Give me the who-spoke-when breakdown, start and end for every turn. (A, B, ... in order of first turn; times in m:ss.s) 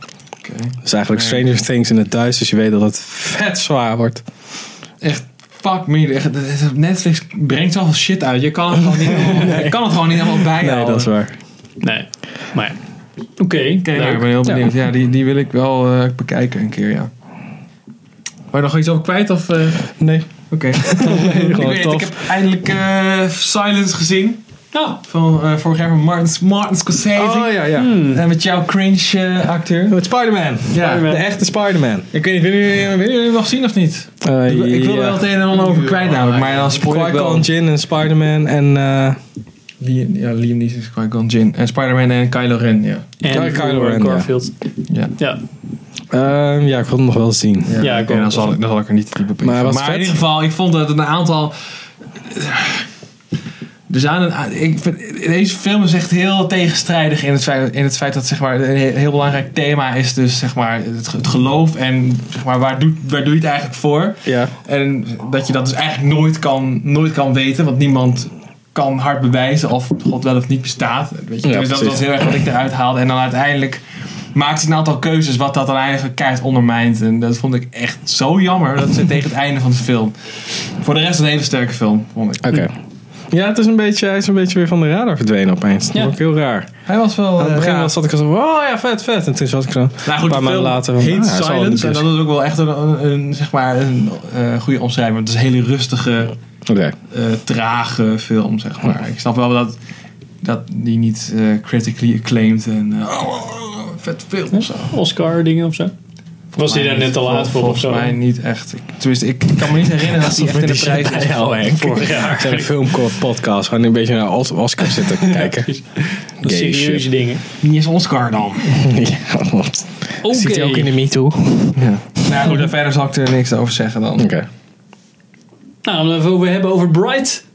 0:00.4-0:01.4 A
0:00.8-0:04.2 B
0:05.0-0:11.1 A
0:09.3-0:09.8 B
0:10.5-0:11.4 B
0:11.8-0:12.8 C
0:13.4-0:14.2 C
0:13.8-0:17.1 A
0:18.5-0:19.9 A
0:20.0-0:22.2 B
0:20.5-0:24.4 A
0:24.7-0:25.0 C
0:25.0-0:30.0 A
0:27.1-0:27.9 B
0:27.8-0:28.2 C
0:29.9-0:32.0 B
0:30.7-0:31.1 A
0:30.7-0:31.2 C
0:32.1-0:37.5 A
0:34.2-0:35.3 B
0:36.6-0:39.2 B
0:39.8-0:43.1 A
0:43.2-0:44.5 C
0:43.3-0:44.3 B
0:44.9-0:45.1 A
0:46.1-0:47.8 B
0:47.7-0:51.5 A
0:47.8-0:48.6 C
0:49.4-0:50.1 B
0:52.2-0:52.9 A
0:53.9-1:13.8 A
1:04.2-1:04.5 B
1:11.4-1:12.0 B
1:14.3-1:22.6 A
1:22.4-1:22.7 B
1:23.3-1:26.7 B
1:26.8-1:27.9 A
1:27.4-1:32.1 B
1:30.0-1:36.4 A
1:36.6-1:37.0 B
1:37.1-1:39.8 A
1:40.4-1:44.9 A
1:44.6-1:45.9 C
1:46.5-1:51.7 A
1:46.6-1:48.1 C
1:50.2-1:55.7 B
1:51.5-1:53.0 C
1:54.9-1:57.4 C
1:56.4-1:57.1 B
1:57.6-1:58.8 A
1:58.8-2:01.8 B
2:00.2-2:00.9 C
2:01.8-2:04.3 A
2:04.2-2:04.4 B
2:05.8-2:07.4 C